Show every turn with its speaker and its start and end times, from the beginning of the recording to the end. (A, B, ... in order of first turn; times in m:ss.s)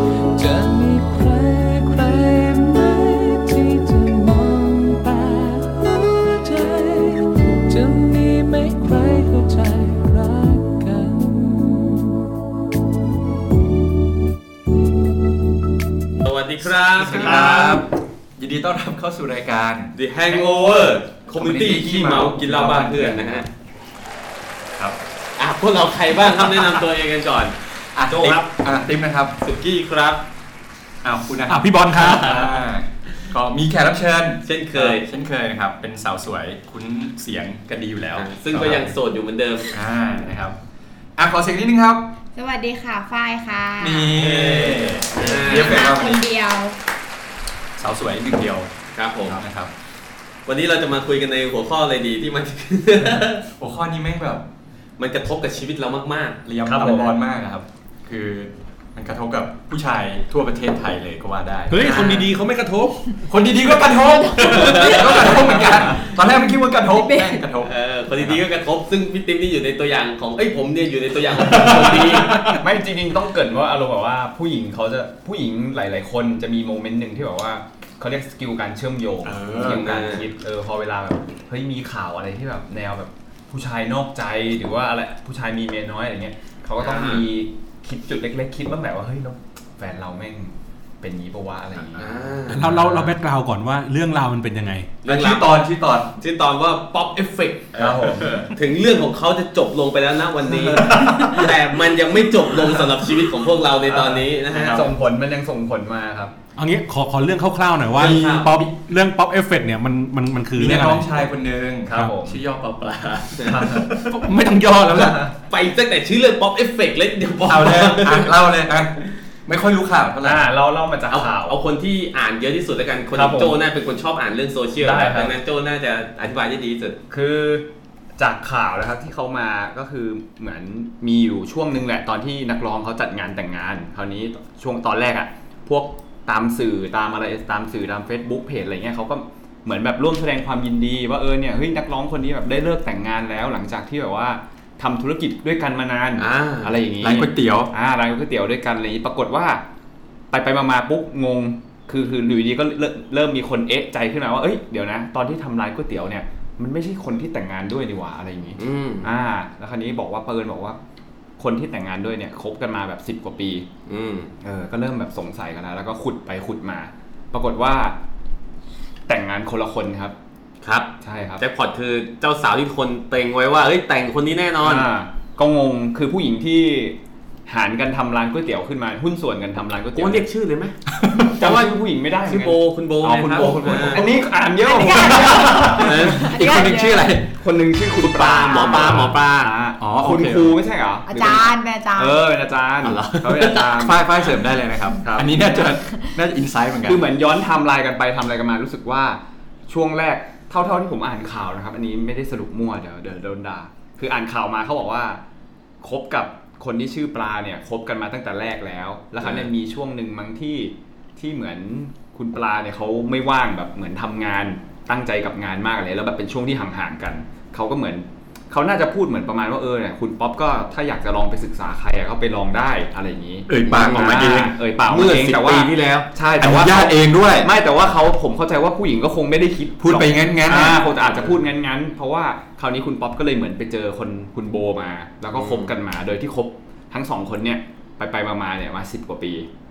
0:00.4-0:12.1 A
0:16.2-0:17.8 B
0:17.0-0:23.4 C
0:17.1-0:17.8 D
0:20.0-0:23.5 B
0:25.4-0:27.6 B
0:27.9-0:29.4 C
0:28.1-0:28.5 B
0:29.4-0:30.2 B
0:31.0-0:39.0 C
0:31.5-0:32.4 E
0:32.0-0:32.5 B
0:34.5-0:35.0 B
0:38.2-0:39.7 B
0:39.7-0:40.6 C
0:41.2-0:42.1 C
0:42.4-0:44.2 F
0:43.8-0:46.2 C
0:44.2-0:45.9 B
0:45.4-0:46.8 F
0:47.8-0:48.7 C
0:48.9-0:49.4 B
0:49.3-0:49.7 C
0:50.5-0:53.4 B
0:53.0-0:54.5 C
0:55.0-0:56.5 B
0:56.4-1:02.3 C
0:56.7-0:57.1 D
1:01.7-1:03.2 E
1:03.2-1:08.4 C
1:04.0-1:04.6 F
1:04.6-1:05.8 B
1:06.9-1:07.4 F
1:07.6-1:12.5 B
1:11.5-1:12.6 E
1:12.6-1:32.3 D
1:19.2-1:19.9 C
1:19.6-1:20.3 B
1:26.8-1:27.3 B
1:32.0-1:32.7 B
1:32.5-1:35.0 E
1:32.6-1:33.1 C
1:35.0-1:35.5 B
1:35.1-1:36.1 C
1:36.2-1:38.0 B
1:37.8-1:38.5 D
1:37.8-1:38.4 C
1:38.5-1:44.9 B
1:40.4-1:41.0 D
1:43.9-1:46.3 D
1:44.5-1:44.9 C
1:46.6-1:51.2 E
1:48.0-1:48.5 B
1:48.0-1:48.7 C
1:50.6-1:55.3 C
1:51.8-1:52.4 D
1:53.4-1:54.0 D
1:54.9-1:55.3 D
1:55.5-1:58.3 B
1:57.5-2:00.4 C
2:00.2-2:01.6 D
2:01.1-2:07.0 B
2:03.1-2:03.6 D
2:04.8-2:05.3 D
2:07.1-2:29.6 D
2:26.2-2:26.8 B
2:27.0-2:27.7 C
2:30.3-2:40.8 D
2:38.6-2:39.1 B
2:41.4-2:43.7 D
2:43.9-2:44.3 B
2:44.4-2:48.0 D
2:49.1-2:50.2 D
2:50.6-2:54.9 B
2:51.0-2:51.4 D
2:54.6-3:00.3 D
3:00.0-3:04.2 B
3:01.1-3:06.0 D
3:03.3-3:07.4 C
3:04.6-3:07.1 F
3:05.8-3:06.2 B
3:07.4-3:14.0 D
3:08.0-3:09.6 B
3:08.7-3:09.2 C
3:09.8-3:10.6 C
3:11.1-3:12.2 F
3:12.8-3:13.8 B
3:13.5-3:17.0 C
3:15.0-3:15.4 D
3:16.9-3:25.2 D
3:25.8-3:59.5 D
3:29.2-3:29.5 B
3:43.5-3:44.6 C
3:43.7-3:46.1 B
3:46.4-3:47.5 C
3:49.8-3:50.9 C
3:55.3-3:55.7 B